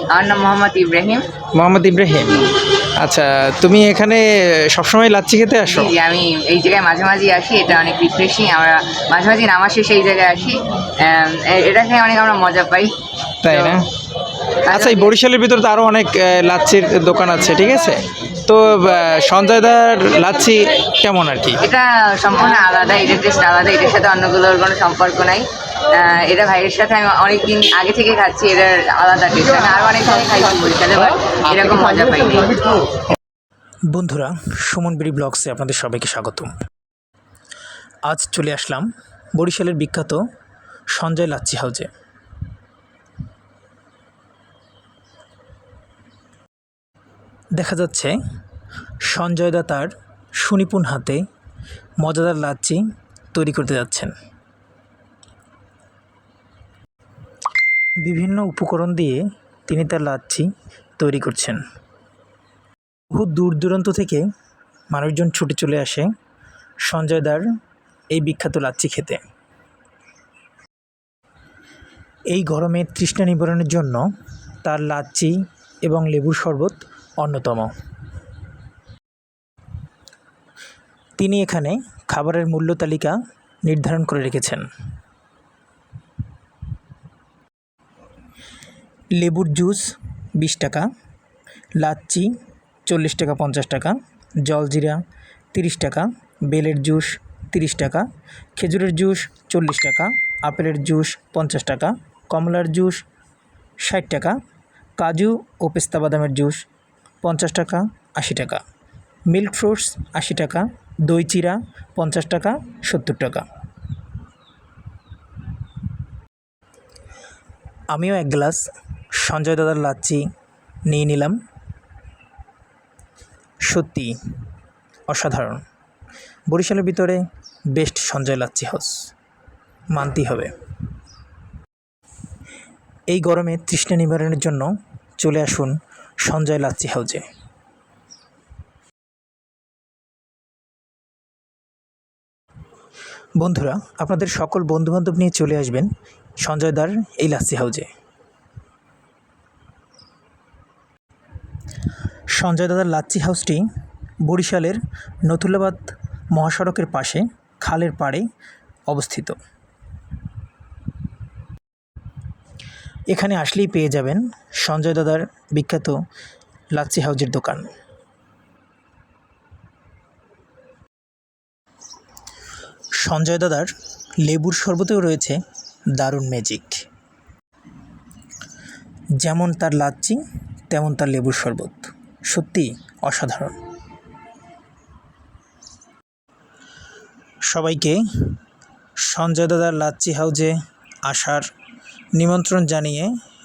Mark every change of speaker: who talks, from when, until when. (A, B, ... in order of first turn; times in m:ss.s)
0:00.1-0:01.2 A
0:01.5-0:02.4 B
0:03.0-0:05.9 B
0:05.7-0:12.9 A
0:13.4-0:13.8 B
0:13.4-0:13.8 A
0:14.7-0:15.1 A
0:14.7-0:21.6 B
0:21.6-0:32.7 A
0:33.9-0:36.5 C
0:38.0-0:40.2 C
0:40.9-0:41.9 C
0:47.6-0:48.1 C
0:49.1-0:51.2 C
0:52.0-0:52.8 C
0:53.3-0:54.1 C
0:58.0-1:01.6 C
1:03.1-1:04.2 C
1:04.9-1:06.1 C
1:06.8-1:07.4 C
1:08.1-1:09.2 C
1:12.3-1:14.0 C
1:14.6-1:17.7 C
1:21.2-1:24.6 C
1:29.2-1:30.9 C
1:31.8-1:32.3 C
1:32.9-1:35.0 C
1:35.5-1:38.0 C
1:38.6-1:43.0 C
1:43.8-1:44.4 C
1:45.0-1:46.6 C
1:47.2-1:48.6 C
1:49.3-1:53.4 C
1:57.9-2:00.2 C
2:00.9-2:01.4 C
2:03.7-2:04.2 C
2:05.1-2:05.6 C
2:06.5-2:07.2 C
2:07.7-2:09.1 C
2:09.9-2:10.5 C
2:13.1-2:17.2 C
2:23.4-2:25.9 C
2:26.4-2:27.9 C
2:32.3-2:33.6 C
2:34.2-2:38.2 C
2:38.9-2:39.4 C
2:43.1-2:46.0 C
2:46.7-2:47.7 C
2:53.0-2:53.7 C
2:54.2-2:55.4 C
2:56.0-2:56.8 C
2:59.2-3:03.6 C
3:07.5-3:08.4 C
3:09.0-3:10.5 C
3:11.0-3:11.4 C
3:12.2-3:13.1 C